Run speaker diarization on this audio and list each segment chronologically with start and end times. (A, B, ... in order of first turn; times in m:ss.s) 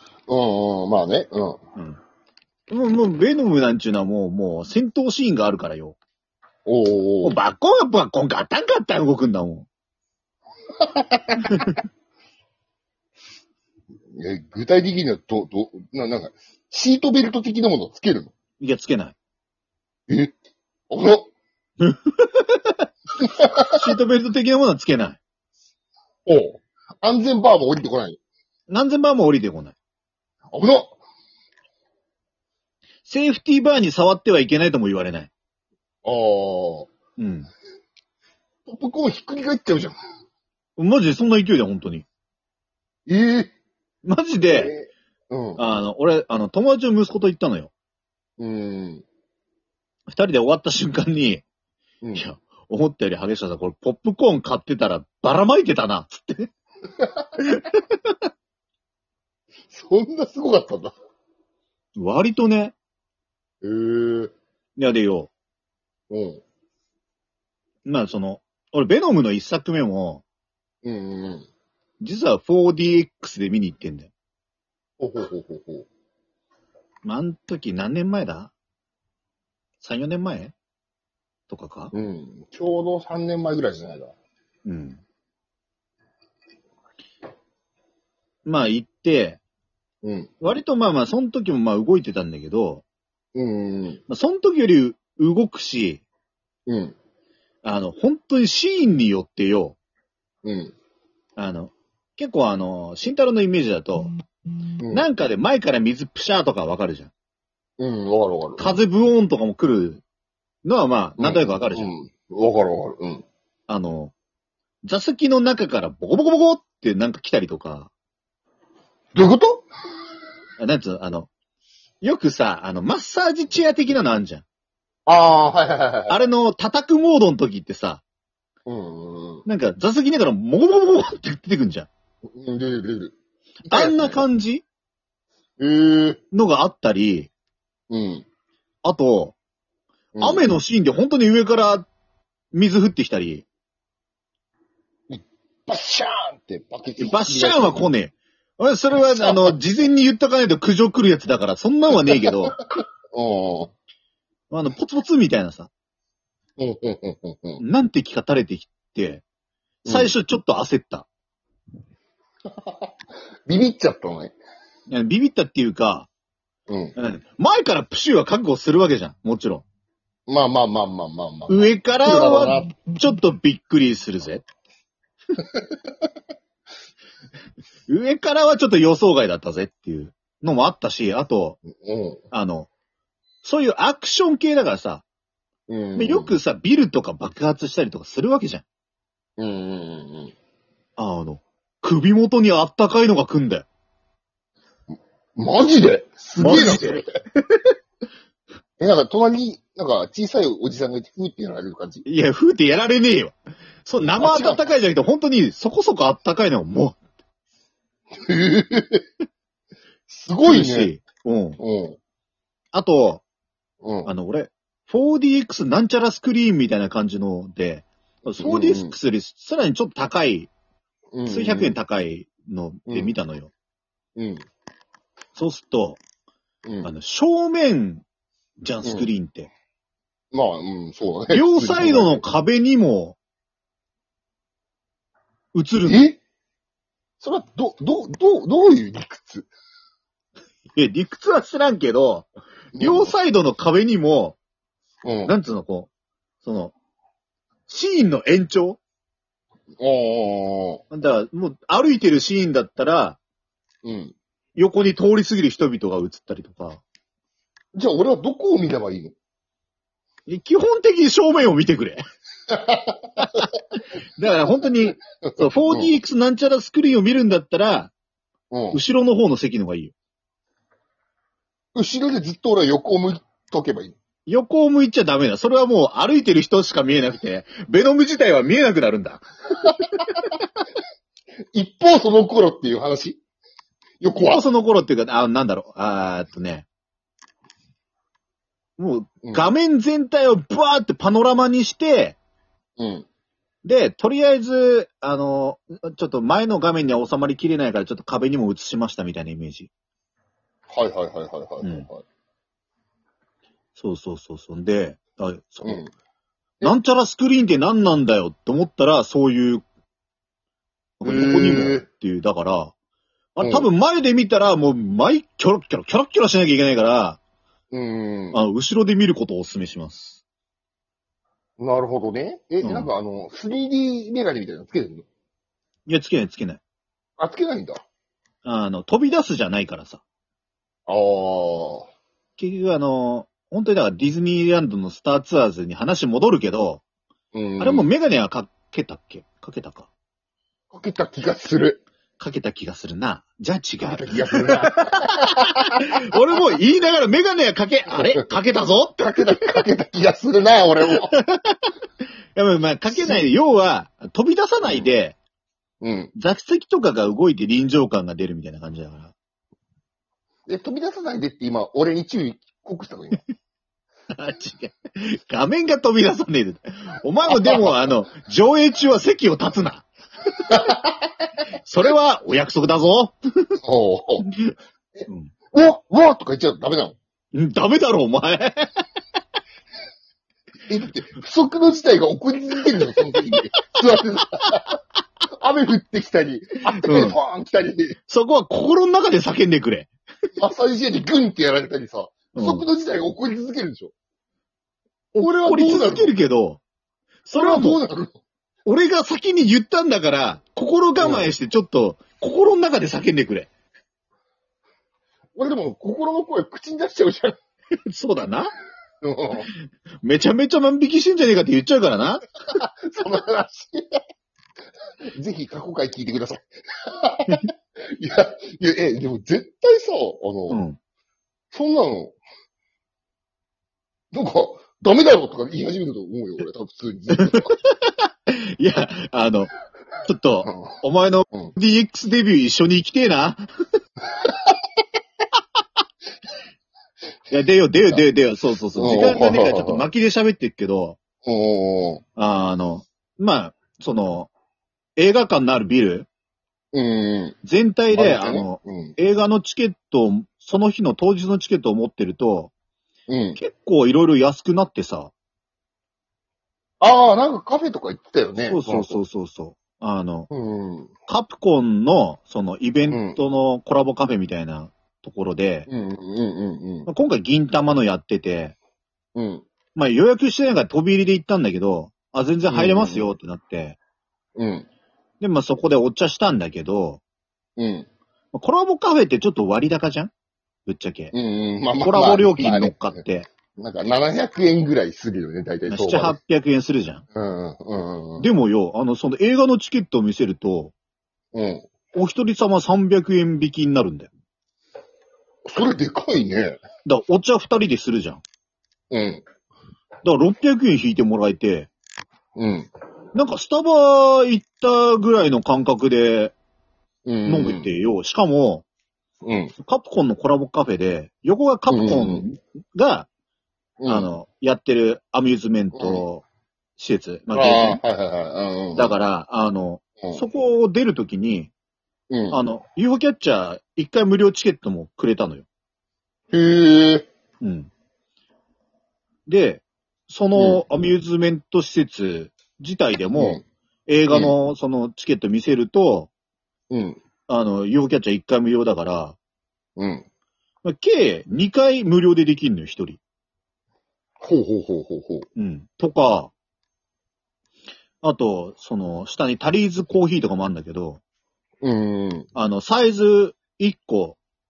0:00.3-0:01.6 A
0:02.7-0:06.0 B
0:06.7-0:07.4 A
0:07.2-0:09.7 B
0:10.8-0:11.6 A
0:11.5-0:11.8 B
0:14.2-0:18.3 A
0:18.6-0:19.2 B
0:20.1-0:20.3 A
0:20.9-0:21.3 A
0:21.8-0:22.9 B
0:23.2-0:23.7 A
0:23.7-0:25.2 B
0:26.2-0:28.2 A
0:28.7-0:29.8 B
0:30.5-0:31.0 A
0:33.0-0:35.3 B
0:36.0-0:36.9 A
0:37.2-0:37.5 B
0:38.7-0:40.0 A
0:40.8-0:42.1 B
0:43.1-0:43.5 A
0:44.0-0:44.7 B
0:44.5-0:45.6 A
0:45.6-0:47.7 B
0:48.4-0:49.0 A
0:50.1-0:51.4 B
0:52.0-0:52.3 A
0:52.2-0:56.5 B
0:57.4-0:58.2 B
0:59.7-1:00.9 A
1:02.0-1:02.8 B
1:03.6-1:04.3 A
1:04.8-1:05.3 B
1:06.1-1:06.4 A
1:07.8-1:10.2 B
1:10.8-1:11.5 A
1:12.0-1:14.1 B
1:15.0-1:15.9 A
1:17.0-1:18.5 B
1:19.8-1:20.5 B
1:21.5-1:21.9 B
1:21.9-1:24.1 A
1:24.6-1:25.0 B
1:28.4-1:29.4 B
1:30.0-1:30.3 A
1:30.4-1:32.8 B
1:33.3-1:34.0 A
1:34.1-1:36.0 B
1:36.7-1:37.0 A
1:37.6-1:39.8 B
1:40.4-1:40.8 A
1:41.4-1:44.1 B
1:44.8-1:45.1 A
1:44.9-1:47.1 B
1:47.8-1:48.7 A
1:48.6-1:50.0 B
1:50.6-1:51.9 B
1:51.2-1:53.2 A
1:53.7-1:54.1 B
1:54.8-1:57.9 B
1:59.1-1:59.7 A
2:00.6-2:01.3 B
2:02.0-2:04.4 B
2:05.1-2:06.2 A
2:06.1-2:08.0 B
2:08.6-2:09.4 A
2:09.4-2:11.9 B
2:12.3-2:14.2 A
2:13.7-2:14.6 B
2:15.6-2:16.2 A
2:16.3-2:17.3 B
2:17.9-2:18.2 A
2:18.8-2:19.4 B
2:20.1-2:20.4 A
2:20.2-2:21.9 B
2:22.5-2:23.4 B
2:25.1-2:27.9 A
2:27.0-2:32.6 B
2:28.9-2:29.6 A
2:32.1-2:32.5 A
2:33.1-2:33.7 A
2:34.5-2:35.7 B
2:36.6-2:37.6 A
2:37.6-2:39.2 B
2:39.8-2:40.1 A
2:39.9-2:41.1 B
2:42.6-2:42.9 A
2:43.4-2:44.4 A
2:44.9-2:46.1 B
2:46.7-2:47.0 A
2:47.0-2:49.6 B
2:50.3-2:52.7 A
2:51.5-2:54.5 B
2:57.9-3:01.6 B
3:01.7-3:02.2 A
3:02.3-3:02.7 B
3:03.4-3:05.0 B
3:05.7-3:06.4 A
3:06.0-3:08.6 B
3:09.4-3:10.3 A
3:11.0-3:13.6 B
3:15.4-3:17.1 A
3:16.4-3:17.7 B
3:18.8-3:22.0 A
3:22.0-3:27.0 B
3:24.2-3:24.6 A
3:28.1-3:29.0 A
3:30.1-3:30.9 A
3:30.4-3:31.6 B
3:31.6-3:32.0 A
3:32.7-3:33.2 B
3:33.8-3:34.1 A
3:34.0-3:40.5 B
3:38.4-3:38.9 A
3:41.1-3:41.8 A
3:41.2-3:43.5 B
3:42.9-3:43.1 A
3:44.2-3:44.4 A
3:45.4-3:46.0 B
3:46.6-3:46.9 A
3:46.8-3:48.0 B
3:48.6-3:49.5 B
3:48.8-3:49.1 A
3:50.3-3:52.2 A
3:51.3-3:53.2 B
3:55.5-3:56.1 B
3:55.8-3:56.2 A
3:57.2-3:59.5 A
4:00.8-4:04.4 B
4:02.8-4:03.1 A
4:05.0-4:05.3 A
4:05.2-4:05.9 B
4:06.4-4:06.7 B
4:07.7-4:08.8 B
4:09.8-4:10.8 A
4:10.9-4:13.2 B
4:13.8-4:14.1 A
4:14.6-4:16.8 B
4:17.8-4:19.1 A
4:20.3-4:22.0 B
4:22.5-4:23.4 A
4:23.2-4:23.5 B
4:24.2-4:27.9 B
4:25.2-4:25.9 A
4:28.5-4:28.8 A
4:28.7-4:29.9 B
4:31.8-4:34.0 A
4:34.3-4:39.2 B
4:39.8-4:40.1 B
4:41.5-4:43.2 A
4:44.0-4:44.4 A
4:44.2-4:46.7 B
4:48.8-4:52.2 B
4:52.8-4:53.1 A
4:53.6-4:59.7 B
5:00.7-5:02.0 A
5:01.6-5:01.9 B
5:03.8-5:05.8 B
5:05.6-5:05.9 A
5:06.6-5:09.6 B
5:11.0-5:12.7 B
5:11.0-5:11.9 A
5:13.4-5:17.2 B
5:13.4-5:13.7 A
5:17.7-5:18.4 A
5:18.3-5:20.2 B
5:21.6-5:25.1 A
5:22.6-5:22.9 B
5:25.9-5:26.6 B
5:27.2-5:27.8 A
5:28.4-5:30.0 B
5:30.9-5:31.9 A
5:32.4-5:36.8 B
5:37.3-5:37.9 A
5:37.6-5:39.9 B
5:40.7-5:41.8 A
5:42.2-5:49.5 B
5:43.8-5:45.4 A
5:49.0-5:51.1 A
5:51.1-5:51.7 B
5:52.4-5:55.2 B
5:52.9-5:53.3 A
5:54.6-5:54.9 A
5:55.8-5:56.1 A
5:56.1-5:59.1 B
6:00.5-6:03.2 A
6:04.1-6:09.9 B
6:07.3-6:07.6 A
6:10.5-6:11.0 A
6:11.6-6:13.6 B
6:13.6-6:14.3 A
6:14.9-6:17.0 A
6:17.3-6:18.8 B
6:20.7-6:24.7 A
6:25.3-6:28.0 A
6:26.7-6:27.2 B
6:28.1-6:29.9 B
6:30.4-6:33.9 A
6:32.3-6:32.6 B
6:35.1-6:36.6 B
6:35.2-6:36.1 A
6:37.2-6:37.8 B
6:37.3-6:38.1 A
6:38.6-6:43.5 B
6:41.0-6:41.3 A
6:45.4-6:47.4 A
6:47.9-6:48.5 B
6:49.0-6:49.5 A
6:50.0-6:52.2 B
6:52.6-6:54.0 A
6:55.2-7:00.6 A
7:00.5-7:00.8 B
7:01.5-7:02.1 A
7:04.1-7:07.5 A
7:07.2-7:09.5 B
7:10.0-7:13.4 B
7:10.4-7:10.7 A
7:14.2-7:14.5 A
7:17.3-7:21.0 B
7:18.8-7:19.9 A
7:21.2-7:22.0 A
7:22.2-7:24.3 B
7:25.0-7:26.1 B
7:26.7-7:27.4 A
7:27.4-7:32.5 B
7:27.9-7:29.0 A
7:33.1-7:33.4 A
7:33.4-7:35.1 B
7:36.8-7:39.0 A
7:38.5-7:40.3 B
7:40.3-7:40.9 A
7:41.1-7:45.7 B
7:42.9-7:43.2 A
7:45.7-7:46.9 A
7:46.9-7:48.5 B
7:49.1-7:49.4 A
7:49.8-7:53.8 B
7:52.5-7:53.1 A
7:54.4-7:54.7 A
7:55.2-7:57.0 B
7:57.6-7:57.9 A
7:58.3-8:00.1 B
8:00.6-8:01.1 B
8:01.1-8:03.0 A
8:01.8-8:03.3 B
8:03.6-8:06.2 A
8:05.7-8:07.0 B
8:07.1-8:08.2 A
8:08.2-8:10.7 B
8:11.3-8:11.7 A
8:11.9-8:14.1 B
8:15.5-8:16.6 A
8:16.8-8:18.2 B
8:18.9-8:19.2 A
8:20.0-8:21.7 B
8:22.4-8:22.7 A
8:23.1-8:26.3 B
8:27.0-8:27.7 A
8:27.2-8:28.6 B
8:29.2-8:29.5 A
8:29.6-8:33.1 B
8:31.7-8:32.2 A
8:33.8-8:34.1 A
8:33.9-8:36.2 B
8:35.7-8:36.0 A
8:36.8-8:37.8 B
8:37.3-8:39.0 A
8:38.8-8:41.5 B
8:42.1-8:42.4 A
8:42.3-8:45.5 B
8:46.3-8:47.1 A
8:47.4-8:47.7 B
8:49.3-8:56.1 B
8:50.4-8:50.6 A
8:53.1-8:53.4 A
8:56.7-8:57.0 A
8:57.3-8:59.2 B
8:59.8-9:00.0 A
9:00.6-9:03.0 B
9:04.2-9:05.2 A
9:05.4-9:06.3 B
9:08.0-9:11.0 B
9:11.6-9:12.3 A
9:12.4-9:14.2 B